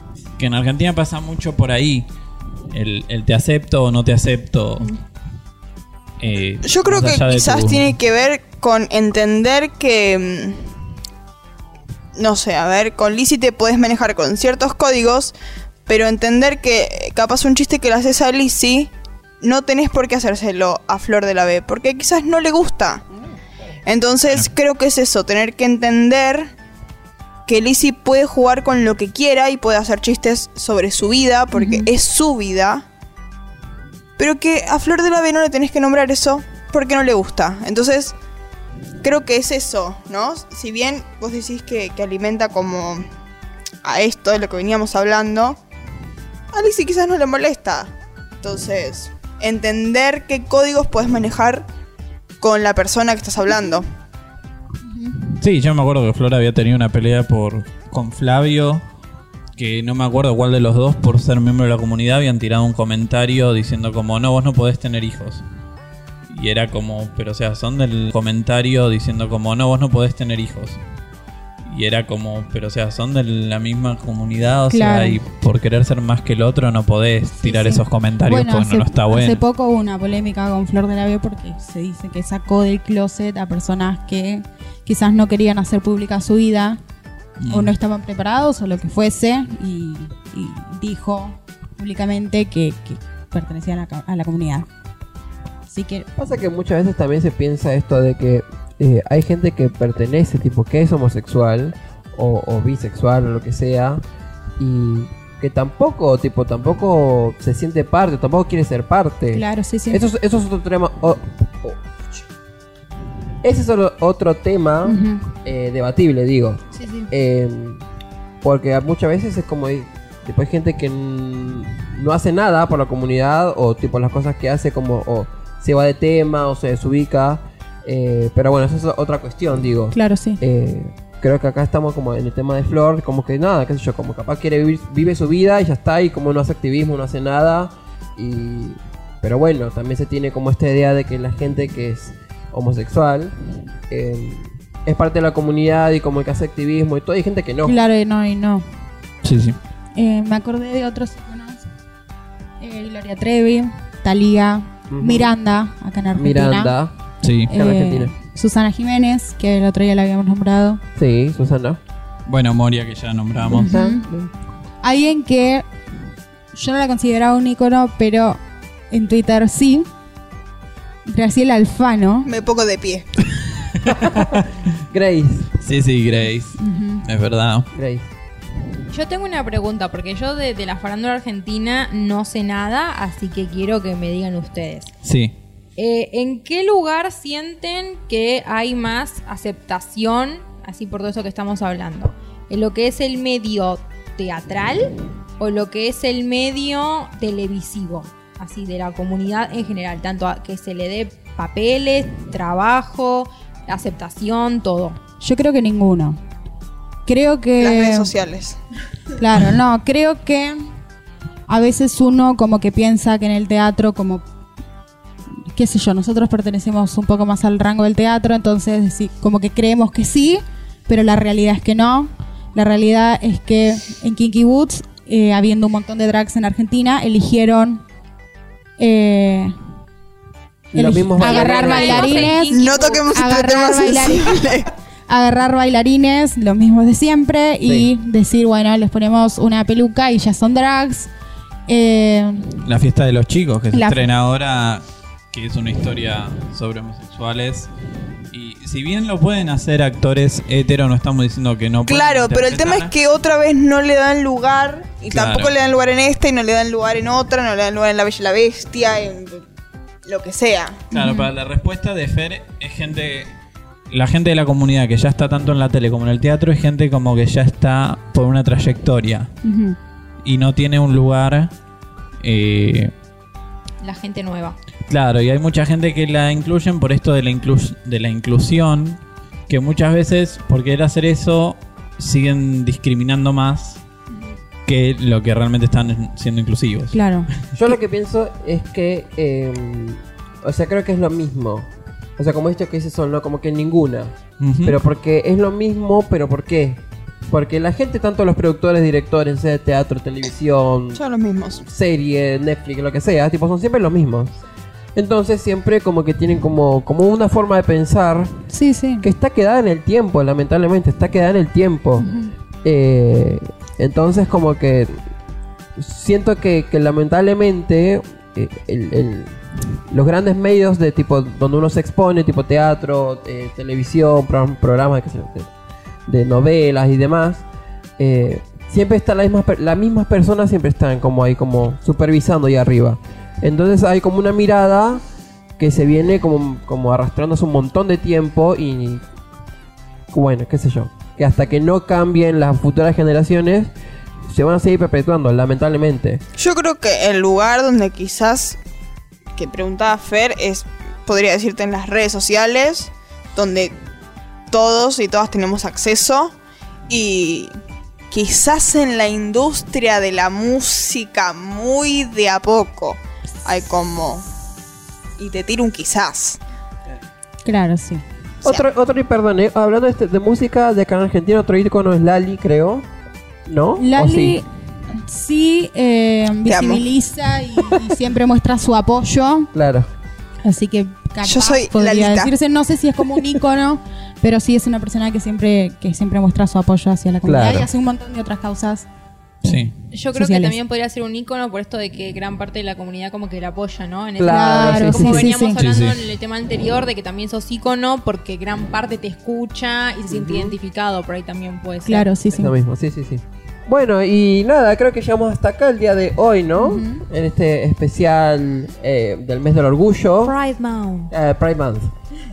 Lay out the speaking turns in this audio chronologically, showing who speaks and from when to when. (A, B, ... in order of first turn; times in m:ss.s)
0:00.4-0:02.1 A
0:02.7-0:04.9 A
0:06.2-0:07.9 A
0:06.6-0:10.7 B
0:12.2-0:15.3 B
0:15.9-0:23.0 B
0:23.8-0:26.5 B
0:27.4-0:32.8 B
0:31.5-0:31.9 C
0:34.2-0:38.1 B
0:39.0-0:43.0 B
0:43.8-0:45.6 B
0:46.5-0:51.7 B
0:52.4-0:53.9 B
0:54.9-0:55.2 C
0:55.4-0:58.8 A
0:59.6-1:05.4 A
1:06.3-1:10.8 A
1:11.6-1:19.4 A
1:14.7-1:15.2 C
1:17.4-1:26.8 C
1:27.4-1:27.7 A
1:27.4-1:34.7 C
1:35.7-1:36.1 C
1:36.2-1:44.0 D
1:44.6-1:52.3 D
1:49.3-1:50.0 C
1:53.4-1:57.8 D
1:54.8-1:55.3 C
1:56.7-1:57.1 C
1:58.4-2:23.3 D
2:09.9-2:10.4 C
2:23.9-2:27.8 D
2:27.6-2:28.6 C
2:29.2-2:29.6 A
2:30.0-2:31.7 C
2:32.6-2:36.7 C
2:34.9-2:35.3 D
2:36.2-2:37.0 D
2:37.2-2:37.5 A
2:37.5-2:38.1 D
2:37.5-2:40.8 C
2:41.0-2:41.8 D
2:42.3-2:43.7 A
2:43.5-2:44.3 D
2:43.5-2:44.0 C
2:44.8-2:45.7 C
2:46.5-2:48.4 C
2:48.9-2:49.9 C
2:51.0-2:52.3 C
2:52.2-2:53.2 B
2:53.2-2:54.5 A
2:53.9-2:54.4 D
2:54.9-2:55.5 D
2:55.6-2:57.7 A
2:56.6-2:57.0 C
2:57.7-2:58.1 D
2:58.9-3:04.9 E
3:05.0-3:05.3 A
3:05.8-3:25.0 E
3:25.2-3:26.2 C
3:27.0-3:28.1 C
3:27.6-3:28.6 B
3:29.2-3:30.6 C
3:31.5-3:34.2 C
3:35.5-3:47.8 C
3:48.8-3:49.5 C
3:50.7-3:52.4 D
3:50.7-3:52.6 C
3:51.2-3:53.1 E
3:52.5-3:54.7 B
3:53.1-3:54.5 C
3:55.1-4:01.1 C
3:57.6-3:57.9 D
4:01.7-4:02.6 C
4:02.6-4:07.7 A
4:03.7-4:04.0 C
4:08.3-4:12.9 A
4:11.8-4:19.4 B
4:15.1-4:15.5 A
4:20.0-4:20.8 B
4:20.9-4:21.3 C
4:20.9-4:23.3 A
4:23.9-4:29.3 A
4:29.4-4:29.8 C
4:30.2-4:31.5 A
4:32.2-4:32.9 A
4:33.8-4:34.6 E
4:34.9-4:43.8 A
4:44.7-4:47.0 A
4:46.9-4:47.3 C
4:47.5-5:01.0 D
4:54.4-4:54.8 A
5:00.9-5:01.6 B
5:01.6-5:04.4 D
5:04.9-5:08.3 D
5:08.5-5:09.1 C
5:09.0-5:12.1 D
5:12.0-5:12.3 C
5:12.6-5:15.0 D
5:15.8-5:19.4 D
5:19.9-5:25.5 D
5:26.1-5:27.4 D
5:28.0-5:35.0 D
5:35.6-5:39.0 D
5:40.1-5:43.7 D
5:44.3-5:46.2 D
5:46.4-5:48.6 B
5:49.4-5:53.7 B
5:54.5-5:56.4 B
5:56.9-5:57.5 B
5:58.1-6:04.2 B
6:05.2-6:06.4 B
6:07.4-6:08.0 C
6:08.4-6:12.9 D
6:13.5-6:14.4 D
6:13.8-6:19.5 C
6:16.4-6:16.8 B
6:19.5-6:19.9 D
6:20.4-6:28.8 C
6:21.2-6:22.3 B
6:27.2-6:27.7 D
6:29.4-6:29.7 A
6:29.9-6:42.1 E
6:30.1-6:30.6 C
6:34.2-6:35.3 D
6:34.2-6:35.6 C
6:35.5-6:36.0 A
6:40.1-6:40.6 D
6:41.8-6:42.5 C
6:42.3-6:50.4 D
6:46.6-6:47.0 C
6:50.2-6:51.1 E
6:51.1-6:51.9 D